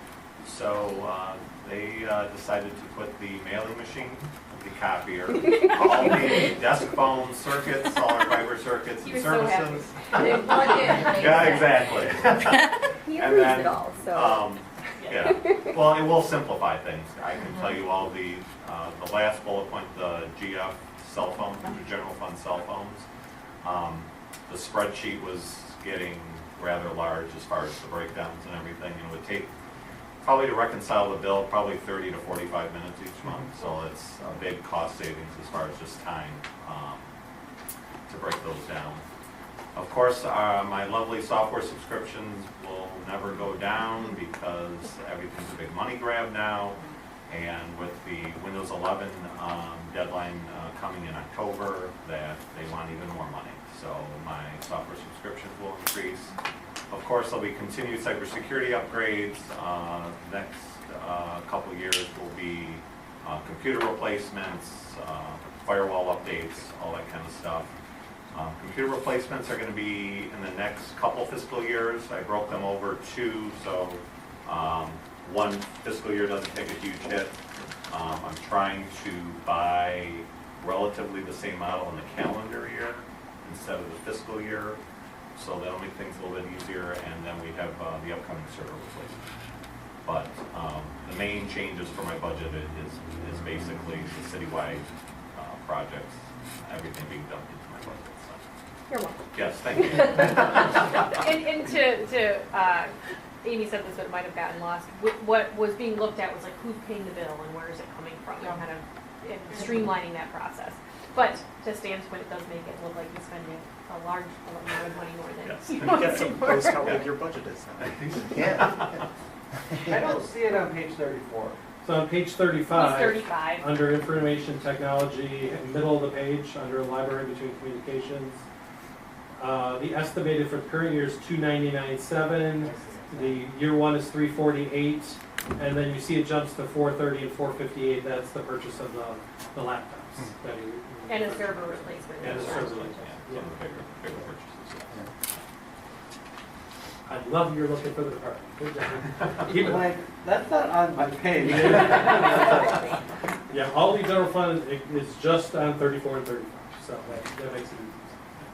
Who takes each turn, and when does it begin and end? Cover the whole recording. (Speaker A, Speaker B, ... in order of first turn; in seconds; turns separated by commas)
Speaker A: 0.4-23.1, Speaker B: 9.0-11.7, Speaker C: 10.2-11.4, Speaker C: 13.0-14.4, Speaker B: 15.0-15.3, Speaker A: 23.6-29.5, Speaker A: 30.2-37.1, Speaker A: 38.1-39.0, Speaker A: 39.7-46.8, Speaker A: 47.3-56.3, Speaker A: 56.9-67.7, Speaker A: 68.3-77.4, Speaker A: 77.9-84.8, Speaker A: 85.3-89.2, Speaker A: 90.0-98.4, Speaker C: 98.9-99.2, Speaker A: 99.3-101.0, Speaker B: 100.2-116.2, Speaker A: 115.4-116.1, Speaker D: 115.8-119.0, Speaker A: 116.8-117.2, Speaker A: 117.8-119.0, Speaker E: 119.8-121.6, Speaker F: 121.8-128.4, Speaker B: 122.7-123.7, Speaker F: 129.4-143.5, Speaker E: 132.6-133.4, Speaker B: 141.1-142.9, Speaker A: 142.2-145.0, Speaker F: 147.1-150.0, Speaker E: 149.4-152.7, Speaker F: 151.3-152.9, Speaker F: 153.5-158.2